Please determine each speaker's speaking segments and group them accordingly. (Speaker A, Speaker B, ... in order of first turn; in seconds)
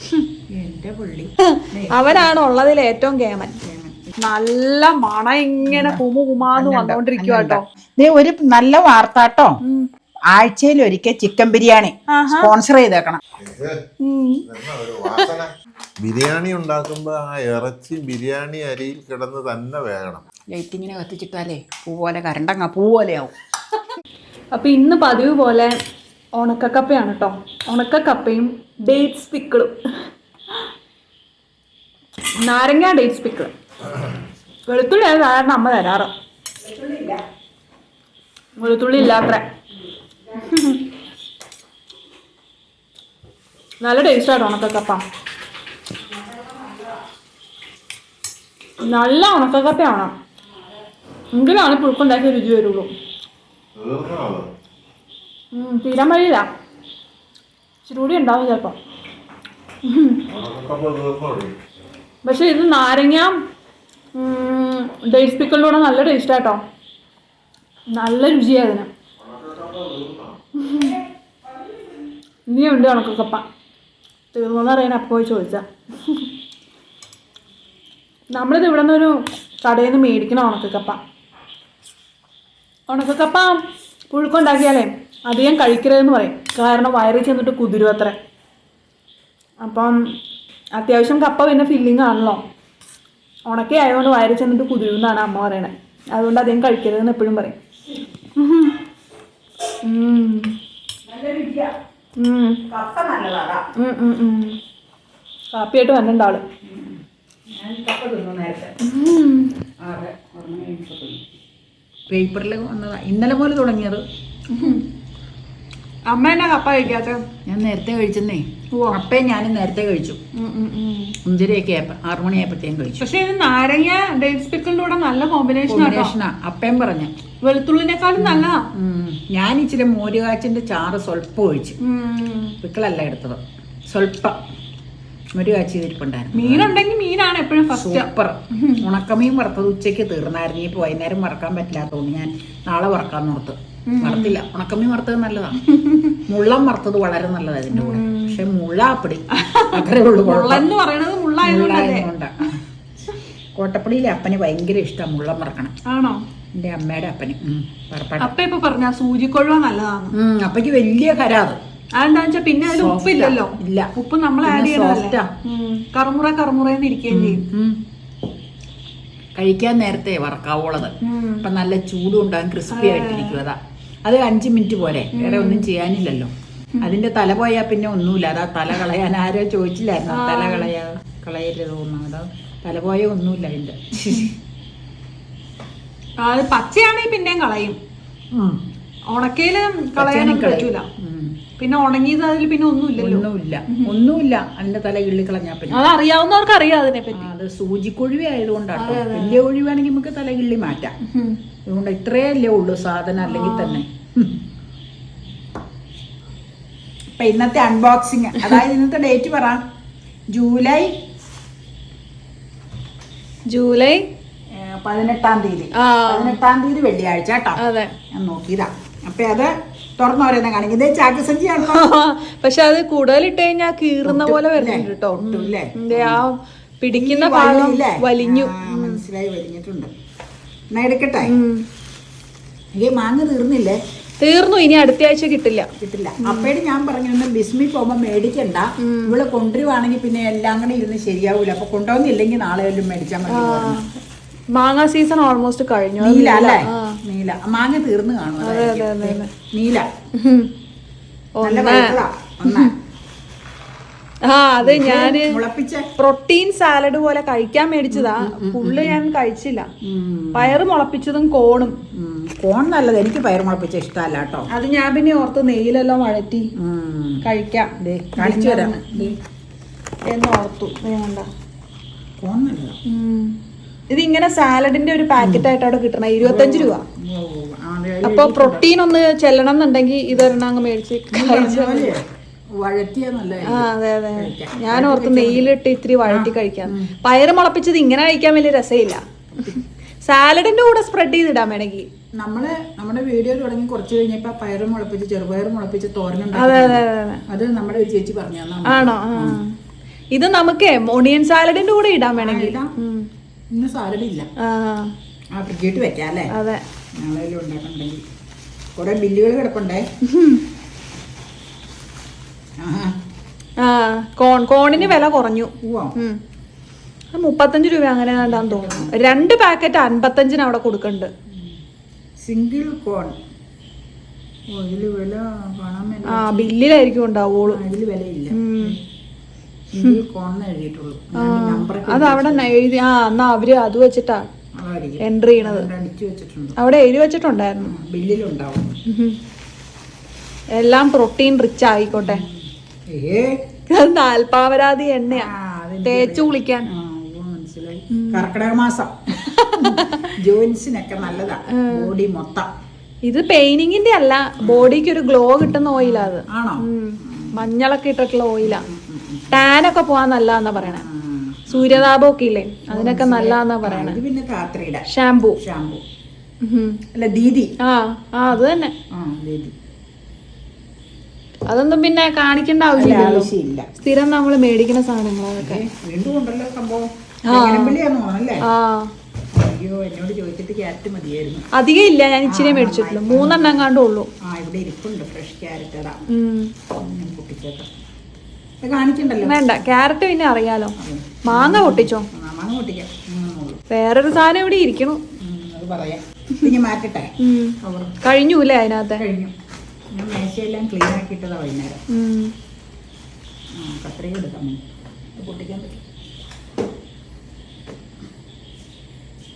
Speaker A: 0.5-2.4, 3.6-4.1, 5.7-9.6, 10.3-13.2, 20.5-23.3, 36.6-37.2, 46.3-46.8, 101.1-101.7, 102.7-103.7, 106.6-107.0, 107.5-108.8, 109.8-111.2, 112.1-114.0, 117.5-120.2, 121.2-123.1, 125.7-127.1, 128.2-131.8, 132.6-133.4, 133.9-134.4, 135.3-136.8, 137.7-145.6, 146.3-150.7, 151.4-152.6, 153.6-155.7, 156.5-158.3, 160.1-161.6, 162.7-163.9, 164.4-165.3, 167.1-167.8, 169.4-184.3, 188.3-188.6, 190.0-191.4, 193.0-195.8, 197.1-201.0, 201.7-204.4, 207.2-209.6, 210.3-211.0, 214.5-221.8, 224.0-226.2, 226.9-229.9, 230.7-231.3, 232.8-233.8, 235.8-243.8, 246.0-249.9, 251.4-252.7, 254.6-255.9, 257.9-259.0, 259.8-260.6, 261.9-264.5, 266.6-267.2, 267.8-269.2, 272.2-272.8, 275.2-275.5, 276.2-278.7, 281.1-282.0, 282.6-285.5, 286.1-286.9, 292.2-299.4, 302.2-302.7, 303.5-304.3, 305.4-306.3, 307.0-308.0, 308.8-309.9, 312.6-312.9, 315.6-315.9, 318.2-319.3, 321.3-321.6, 322.2-323.2, 324.5-326.5, 327.5-328.8, 329.7-332.5, 334.6-336.6, 337.6-338.8, 341.9-343.5, 345.1-352.5, 354.4-354.7, 355.8-357.4, 358.4-359.4, 360.6-361.9, 362.7-365.8, 366.9-367.5, 368.9-369.5, 372.8-373.7, 375.4-378.4, 379.3-381.5, 382.3-383.7, 384.2-386.0, 386.7-387.7, 388.6-389.4, 390.8-393.6, 395.2-397.1, 397.6-397.9, 399.0-399.3, 399.9-401.8, 403.6-405.8
Speaker B: 1.4-3.6, 4.2-7.6, 12.1-12.5, 14.0-14.4, 24.5-25.7, 26.4-29.8, 32.4-33.5, 34.7-36.1, 38.6-39.5, 40.4-40.8, 43.8-45.0, 48.8-50.1, 51.3-52.9, 55.5-56.5, 57.9-58.8, 59.8-60.2, 62.2-63.4, 64.2-66.6, 67.9-68.9, 70.6-71.0, 72.5-73.5, 74.3-76.3, 78.3-81.0, 82.9-88.2, 89.6-90.1, 90.8-92.4, 93.5-97.6, 98.4-98.7, 99.8-100.5, 102.2-102.6, 103.8-104.6, 105.5-106.4, 108.8-109.5, 114.5-114.8, 116.1-117.2, 120.3-121.2, 123.0-126.1, 127.4-128.7, 131.8-132.6, 136.3-138.8, 143.9-144.4, 145.7-146.2, 147.7-148.4, 149.3-152.1, 155.8-156.2, 158.2-160.2, 162.0-167.5, 171.0-171.4, 172.7-173.4, 175.1-175.7, 180.1-180.7, 186.2-187.8, 189.1-190.9, 191.6-194.0, 195.7-197.3, 198.8-199.4, 201.1-201.4, 203.2-203.8, 213.5-214.1, 215.8-216.4, 217.6-217.9, 221.6-229.0, 231.2-231.7, 234.2-235.7, 236.2-236.5, 238.8-239.2, 243.3-243.9, 244.5-247.0, 248.4-249.3, 250.1-250.5, 251.4-252.7, 254.2-255.4, 256.0-259.7, 260.4-261.8, 264.5-266.5, 267.2-269.1, 270.1-271.3, 272.9-273.4, 273.9-276.8, 278.0-281.9, 283.4-291.9, 296.4-297.2, 298.7-299.5, 300.1-303.1, 304.4-304.9, 306.3-306.6, 310.1-310.4, 313.6-316.2, 317.1-321.1, 326.1-327.6, 328.3-328.8, 331.2-334.3, 335.0-335.7, 336.6-337.8, 338.9-339.2, 340.5-342.2, 343.7-345.3, 345.9-346.7, 347.9-348.3, 349.3-350.1, 351.5-351.9, 353.1-358.7, 359.3-360.9, 361.5-364.0, 364.9-365.4, 366.4-366.8, 367.6-368.7, 371.5-375.6, 377.3-377.8, 378.4-378.9, 381.5-384.1, 386.1-386.5, 389.2-390.8, 391.3-392.1, 393.7-395.0, 397.2-399.1, 401.9-402.3
Speaker C: 13.4-13.8, 14.4-20.2, 53.8-54.5, 60.3-61.6, 69.2-70.4